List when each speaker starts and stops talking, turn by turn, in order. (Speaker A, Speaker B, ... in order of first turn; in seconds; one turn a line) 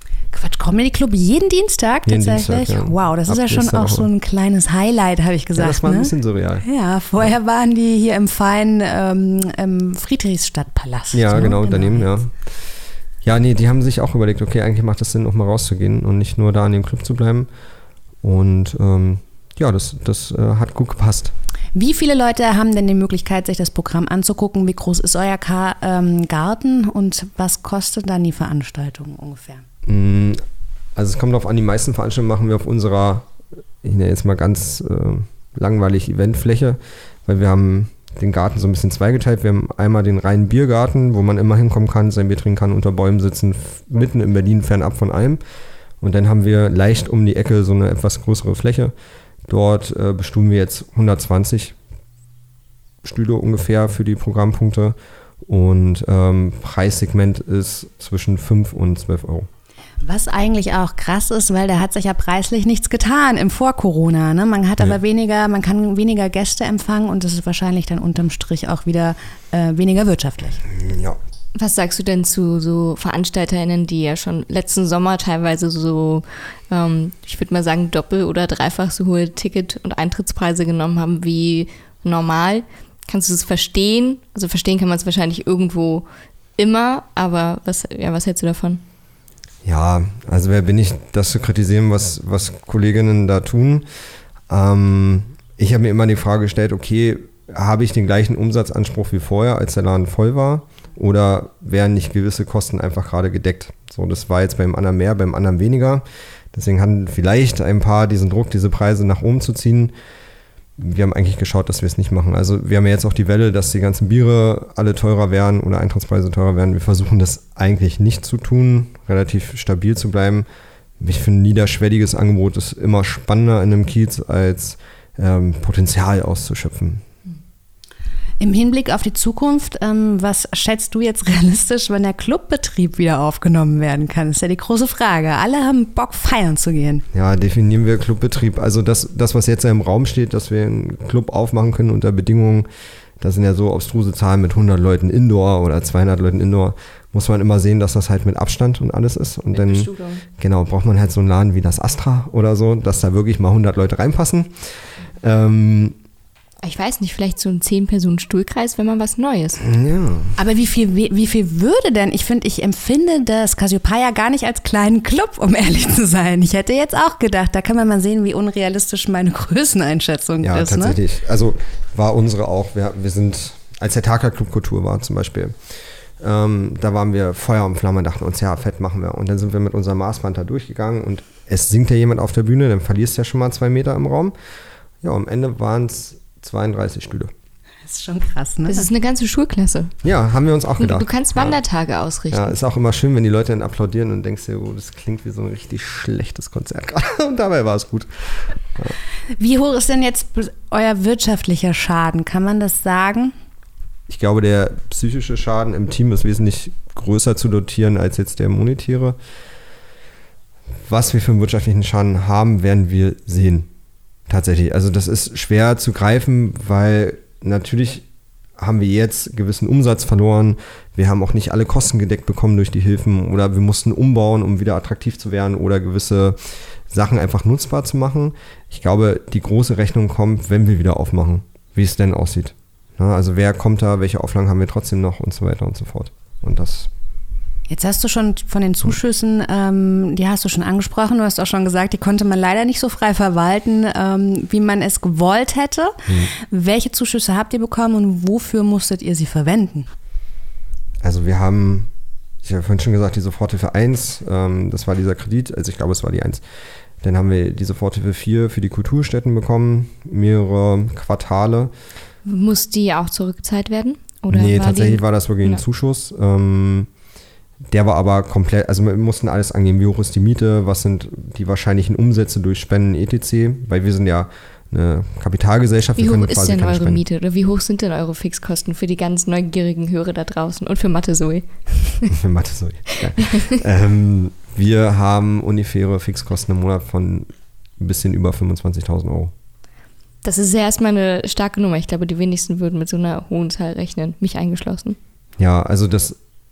Speaker A: 0.3-12.1
Speaker B: 2.1-4.1
Speaker B: 5.6-6.6
Speaker B: 11.1-12.4
Speaker B: 13.2-17.5
Speaker B: 18.2-21.3
Speaker A: 21.8-29.6
Speaker B: 29.9-30.4
Speaker B: 31.0-33.3
Speaker B: 33.8-45.4
Speaker B: 46.0-48.9
Speaker B: 49.5-51.8
Speaker B: 53.0-55.0
Speaker B: 55.5-59.5
Speaker A: 60.0-70.7
Speaker B: 70.7-71.2
Speaker C: 71.6-86.1
Speaker C: 86.6-88.8
Speaker B: 89.6-93.9
Speaker B: 94.5-109.9
Speaker B: 110.8-120.5
Speaker B: 121.0-127.0
Speaker A: 128.4-137.1
Speaker B: 137.1-142.7
Speaker B: 143.2-154.6
Speaker C: 149.5-150.2
Speaker B: 155.2-156.0
Speaker C: 156.6-159.6
Speaker B: 159.6-160.3
Speaker A: 160.4-171.0
Speaker B: 170.4-175.6
Speaker B: 176.2-184.3
Speaker B: 185.0-187.3
Speaker A: 187.8-188.9
Speaker C: 188.7-189.9
Speaker B: 190.0-191.6
Speaker C: 190.8-192.6
Speaker B: 192.3-198.9
Speaker A: 199.4-203.3
Speaker B: 204.1-209.2
Speaker B: 210.9-213.7
Speaker B: 214.3-218.1
Speaker B: 218.6-236.9
Speaker A: 237.7-249.9
Speaker B: 251.0-251.9
Speaker B: 252.4-256.4
Speaker B: 257.0-261.7
Speaker C: 262.2-265.6
Speaker B: 264.3-266.9
Speaker B: 267.7-277.0
Speaker C: 276.0-282.1
Speaker B: 282.1-289.3
Speaker C: 283.1-283.5
Speaker C: 290.2-295.0
Speaker B: 295.4-296.2